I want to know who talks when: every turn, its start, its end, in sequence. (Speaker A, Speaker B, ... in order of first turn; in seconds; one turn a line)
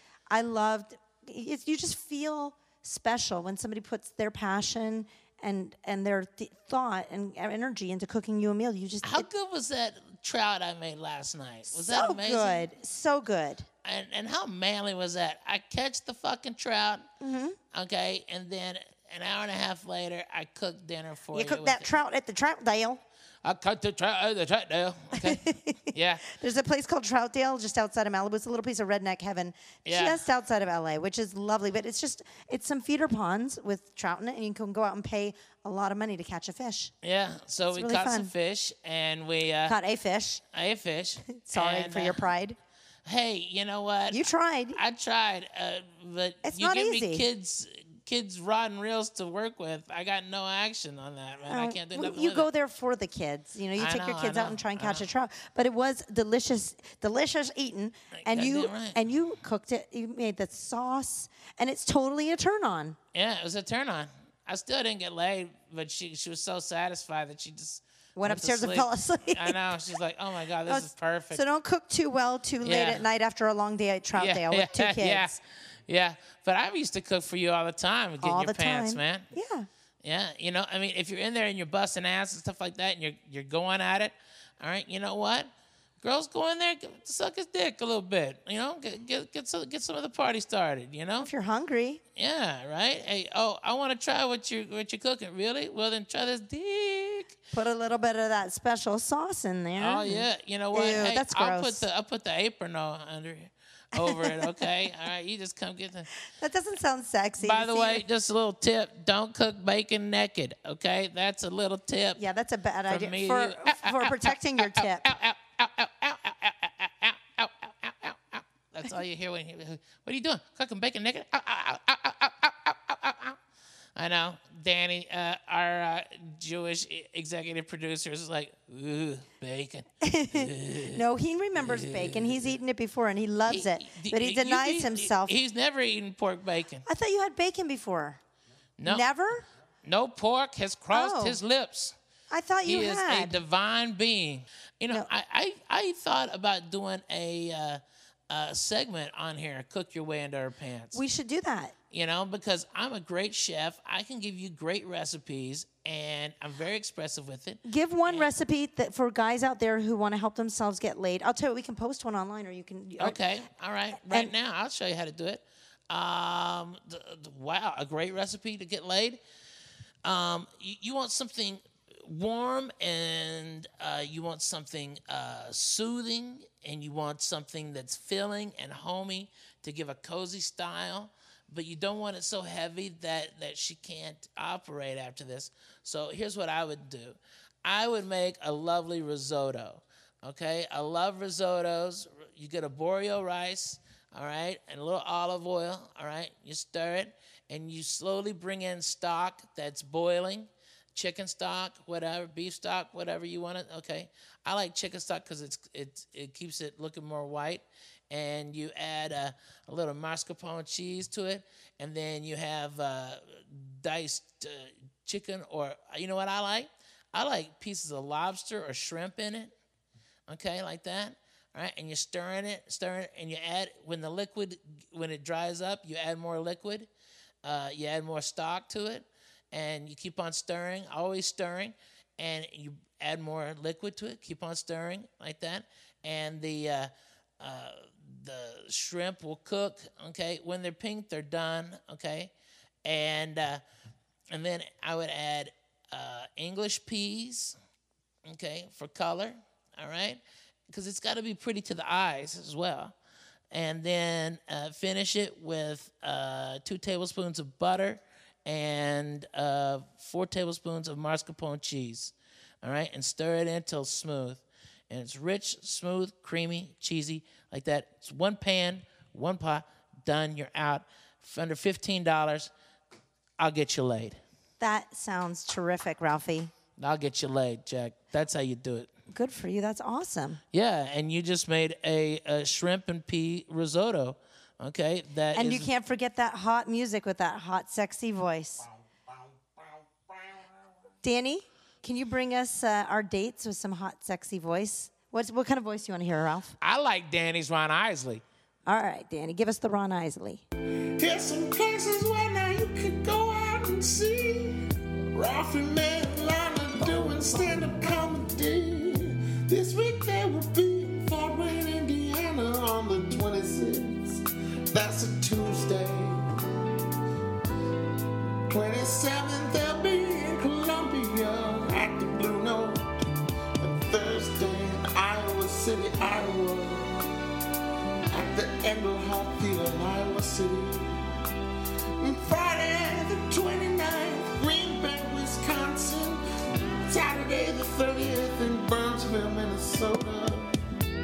Speaker A: 0.3-9.3
Speaker B: 9.0-12.7
Speaker A: 11.7-13.7
Speaker B: 13.8-17.1
Speaker A: 17.2-17.6
Speaker B: 17.7-21.9
Speaker A: 21.3-23.0
Speaker B: 23.4-26.2
Speaker A: 25.2-36.9
Speaker B: 29.9-30.2
Speaker B: 37.0-39.8
Speaker A: 37.7-38.3
Speaker A: 39.6-40.4
Speaker B: 40.5-42.3
Speaker A: 41.4-42.6
Speaker B: 43.1-52.5
Speaker A: 44.1-44.8
Speaker A: 46.4-47.3
Speaker A: 51.5-63.0
Speaker B: 53.8-55.1
Speaker B: 58.1-59.0
Speaker B: 63.1-71.4
Speaker A: 68.2-69.8
Speaker A: 70.7-75.4
Speaker B: 72.6-73.0
Speaker B: 74.2-79.3
Speaker A: 78.2-79.7
Speaker B: 80.0-91.3
Speaker A: 91.2-92.0
Speaker B: 92.2-97.3
Speaker A: 97.5-101.8
Speaker B: 99.8-106.1
Speaker A: 104.0-104.5
Speaker A: 106.3-108.0
Speaker B: 107.4-112.2
Speaker A: 112.2-115.1
Speaker B: 112.9-123.4
Speaker B: 124.0-131.0
Speaker A: 130.0-135.4
Speaker B: 131.6-132.5
Speaker B: 133.5-136.9
Speaker A: 136.9-138.2
Speaker B: 138.8-139.1
Speaker A: 138.8-139.5
Speaker B: 139.8-142.0
Speaker A: 140.9-141.4
Speaker A: 142.3-143.4
Speaker B: 142.7-151.0
Speaker A: 150.9-151.8
Speaker B: 151.9-158.3
Speaker A: 157.6-163.2
Speaker B: 163.0-169.2
Speaker A: 164.0-164.3
Speaker B: 170.1-219.5
Speaker B: 220.3-226.9
Speaker B: 227.4-242.3
Speaker B: 242.8-243.6
Speaker B: 244.3-247.6
Speaker B: 248.2-252.9
Speaker B: 253.5-272.5
Speaker B: 273.4-274.2
Speaker A: 274.6-276.5
Speaker B: 276.8-278.9
Speaker A: 279.1-280.4
Speaker B: 280.5-285.7
Speaker A: 285.4-288.7
Speaker A: 291.0-296.6
Speaker B: 296.6-298.2
Speaker A: 298.7-300.4
Speaker C: 301.0-316.2
Speaker C: 318.5-322.9
Speaker C: 323.6-326.9
Speaker C: 328.1-331.1
Speaker C: 332.0-336.2
Speaker C: 336.9-340.5